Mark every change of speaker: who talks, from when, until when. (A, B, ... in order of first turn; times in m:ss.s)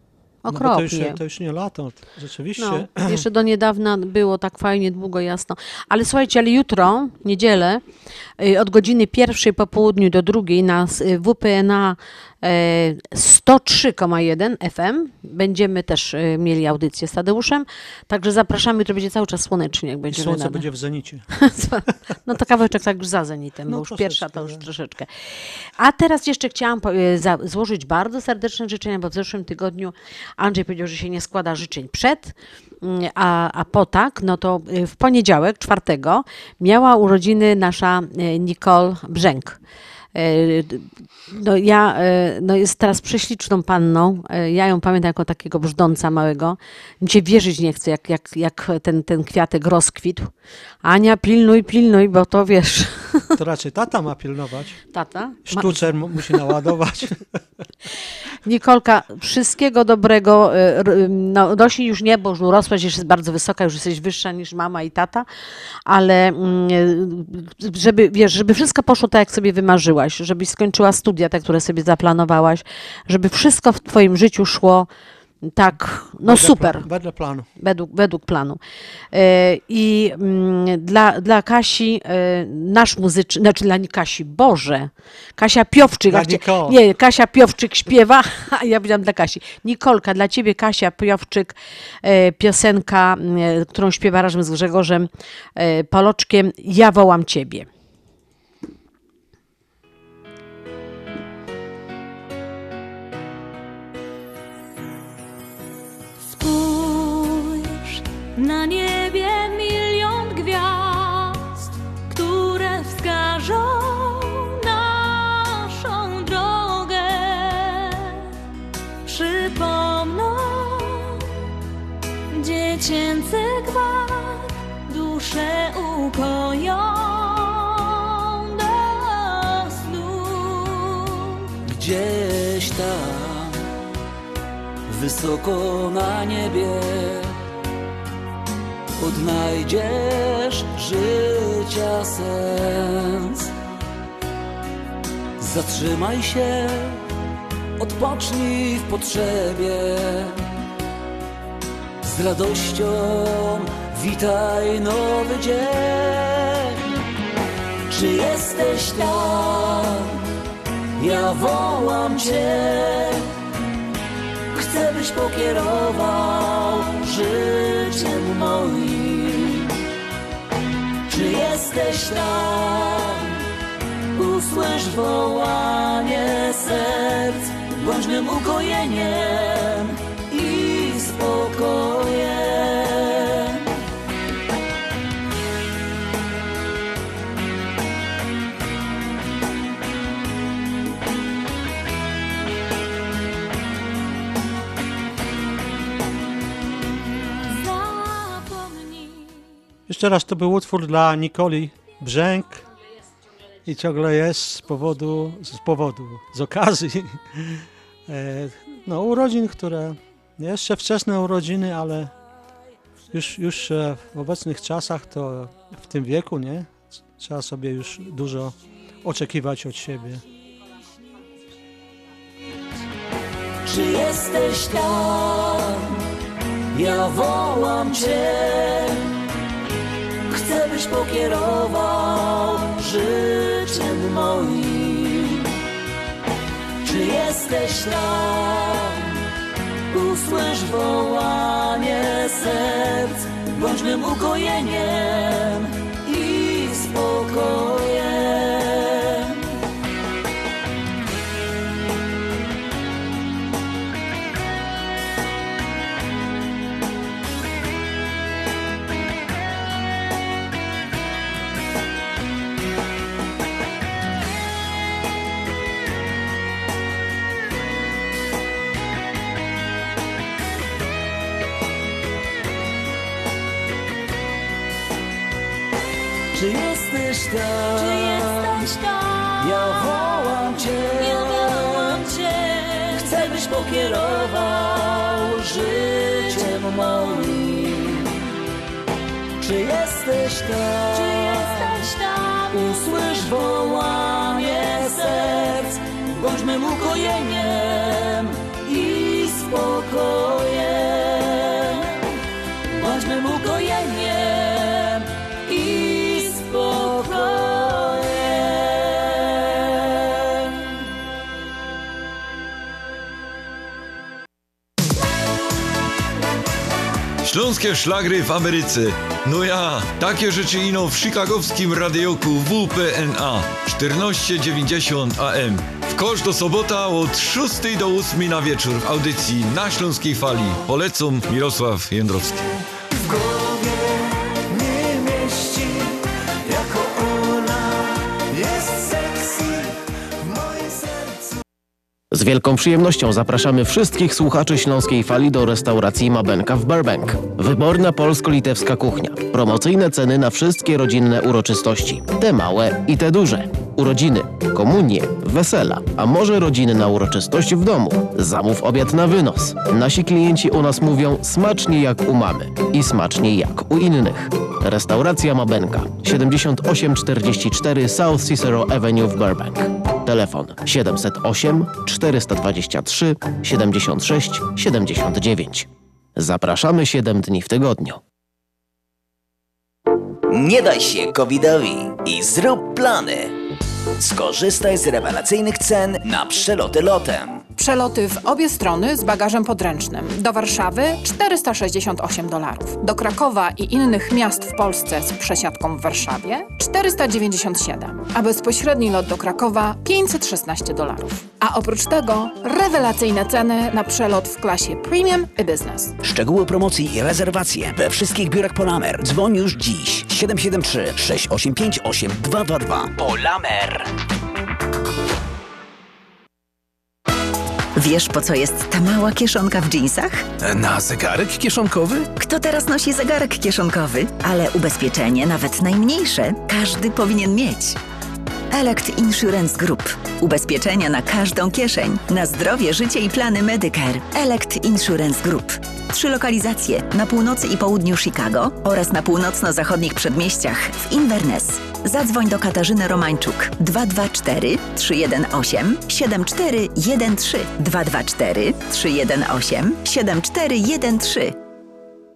0:00.4-0:01.2 A
0:00.5-0:03.2 B
0:02.6-0:07.8 A
0:08.4-0:20.6 A
0:20.1-0:21.2 B
0:21.4-0:25.1 A
0:23.7-0:24.6 B
0:25.8-0:39.6 A
0:40.1-0:50.3 A
0:50.8-0:53.3 A
0:53.4-0:54.8 B
0:54.9-0:56.4 A
0:55.4-0:57.2 B
0:58.4-1:05.2 A
1:05.9-1:14.9 A
1:15.4-1:16.8 A
1:16.2-1:17.5 B
1:17.6-1:18.6 A
1:19.1-1:37.7 A
1:26.1-1:26.8 B
1:46.2-1:58.2 C
1:59.1-2:01.2 C
2:02.3-2:11.3 C
2:11.6-2:13.6 D
2:14.9-2:17.3 D
2:19.0-2:23.5 D
2:25.4-2:27.0 D
2:27.8-2:30.4 D
2:32.0-2:36.6 D
2:37.9-2:40.1 D
2:41.0-2:43.2 D
2:44.6-2:49.6 D
2:51.1-2:53.2 D
2:54.2-3:03.4 D
3:17.5-3:19.4 C
3:19.9-3:22.6 B
3:23.6-3:32.1 B
3:33.1-3:40.2 B
3:43.7-3:45.6 D
3:46.8-3:48.9 D
3:50.4-3:55.4 D
3:56.8-3:58.9 D
3:59.9-4:08.6 D
4:36.4-4:38.5 D
4:37.7-4:40.3 C
4:39.4-4:41.5 D
4:40.8-4:43.4 C
4:43.4-4:48.0 D
4:49.4-4:51.5 D
4:50.9-4:52.6 C
4:52.7-4:58.3 D
4:59.3-5:00.2 D
5:02.8-5:03.5 D
5:17.2-5:32.5 E
5:42.1-6:18.0 F
6:20.3-6:23.3 G
6:24.0-6:27.4 G
6:27.6-6:45.9 H
6:46.0-6:53.9 G
6:57.7-7:00.3 I
7:00.4-7:02.1 G
7:02.2-7:07.8 I
7:08.5-7:31.3 I